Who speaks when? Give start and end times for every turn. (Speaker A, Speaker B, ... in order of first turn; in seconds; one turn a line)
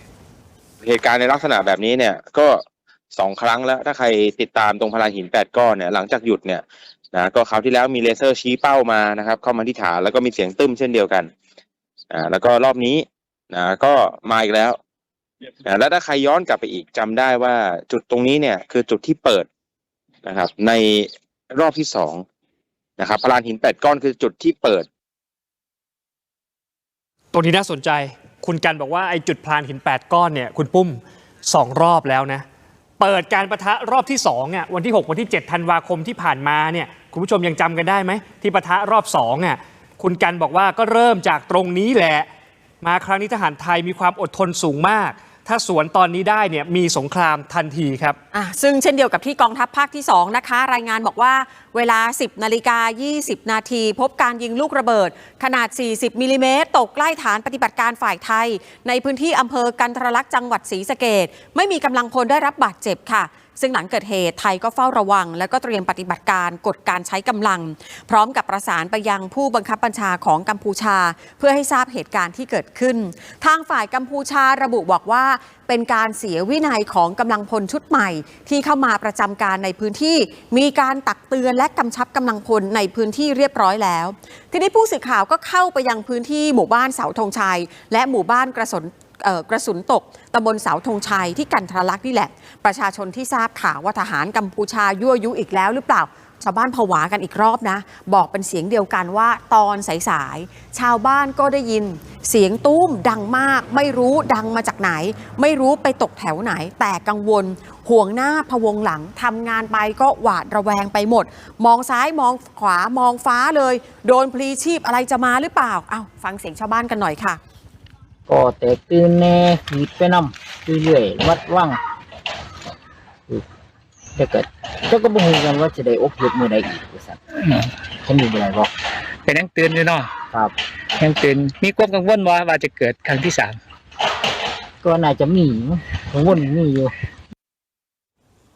Speaker A: 0.8-2.6
Speaker A: 3.1-11.3
Speaker A: 12.1-14.8
Speaker A: 15.7-19.5
Speaker A: 20.2-22.2
Speaker A: 23.0-24.9
Speaker B: 27.3-32.5
Speaker B: 33.0-42.3
Speaker B: 42.8-48.2
Speaker C: 48.3-117.4
Speaker D: 118.3-121.8
Speaker D: 124.2-127.2
Speaker D: 127.9-128.7
Speaker E: 129.3-130.1
Speaker E: 131.0-133.6
Speaker D: 134.8-136.9